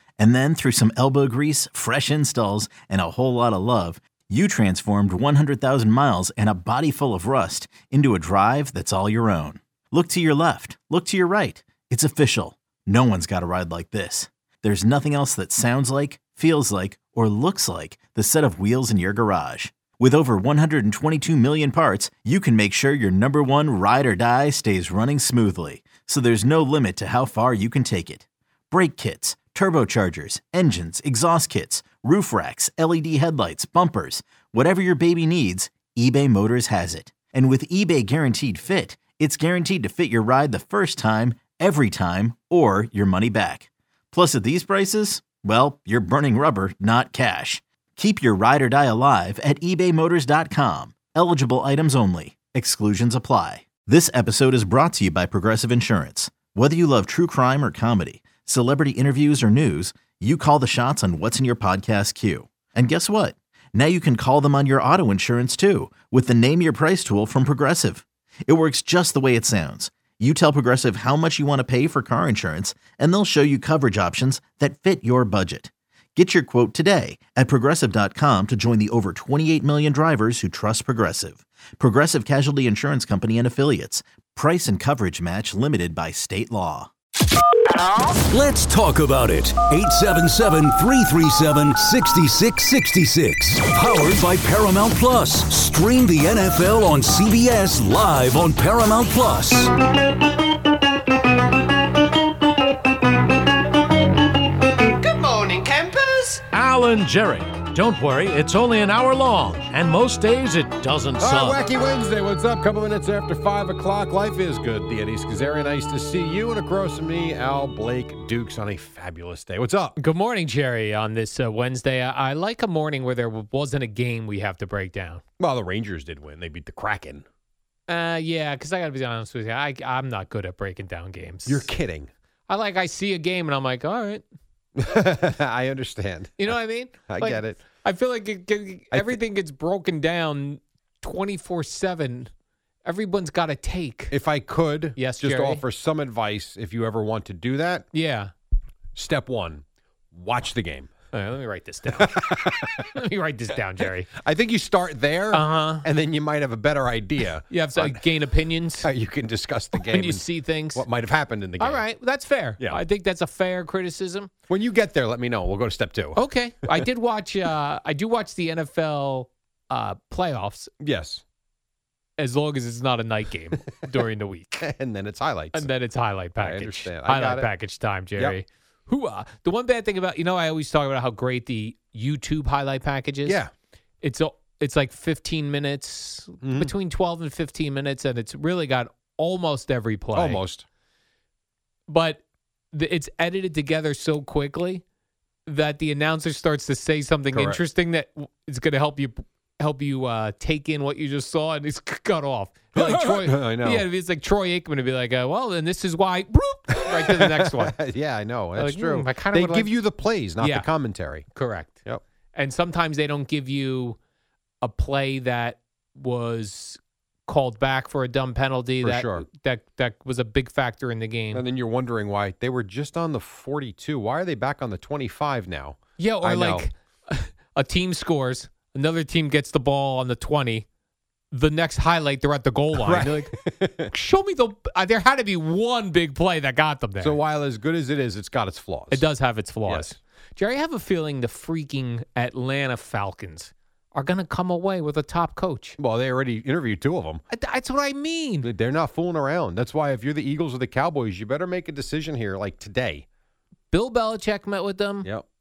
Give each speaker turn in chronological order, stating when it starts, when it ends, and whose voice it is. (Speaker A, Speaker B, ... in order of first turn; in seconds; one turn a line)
Speaker A: 0.2-86.9
Speaker B: 88.3-99.7
Speaker C: 105.0-106.4
Speaker D: 106.5-111.5
Speaker E: 111.2-120.0
Speaker C: 120.0-125.2
Speaker E: 125.4-127.2
Speaker C: 127.9-131.7
Speaker E: 131.5-132.1
Speaker C: 132.5-134.2
Speaker E: 134.8-136.5
Speaker C: 136.4-142.3
Speaker E: 137.1-137.6
Speaker E: 138.9-139.2
Speaker C: 142.8-144.1
Speaker E: 144.1-147.8
Speaker C: 144.9-145.6
Speaker C: 147.9-148.3
Speaker E: 148.9-150.9
Speaker C: 151.1-154.1
Speaker E: 152.1-152.8
Speaker E: 154.2-158.0
Speaker C: 155.3-155.8
Speaker C: 157.5-158.9
Speaker E: 158.8-161.9
Speaker C: 159.8-160.8
Speaker C: 161.6-164.3
Speaker E: 164.5-166.7
Speaker C: 166.2-170.7
Speaker E: 170.8-171.2
Speaker C: 172.2-174.6
Speaker E: 174.6-175.7
Speaker C: 175.5-183.4
Speaker E: 176.4-177.5
Speaker E: 183.2-183.5
Speaker C: 184.0-190.4
Speaker E: 186.4-186.7
Speaker E: 190.1-190.6
Speaker C: 191.9-194.8
Speaker C: 195.4-207.8
Speaker E: 197.3-197.6
Speaker E: 202.8-203.8
Speaker E: 206.9-211.3
Speaker C: 208.6-209.7
Speaker C: 210.4-210.7
Speaker C: 211.3-211.8
Speaker C: 212.3-214.0
Speaker C: 214.6-221.4
Speaker E: 218.8-219.2
Speaker E: 221.3-226.6
Speaker C: 226.0-230.7
Speaker C: 231.3-233.3
Speaker E: 232.8-233.9
Speaker C: 233.9-237.2
Speaker E: 237.0-239.1
Speaker C: 238.9-245.8
Speaker E: 239.7-239.9
Speaker E: 245.8-247.2
Speaker C: 247.3-248.5
Speaker E: 248.4-253.1
Speaker C: 253.7-255.1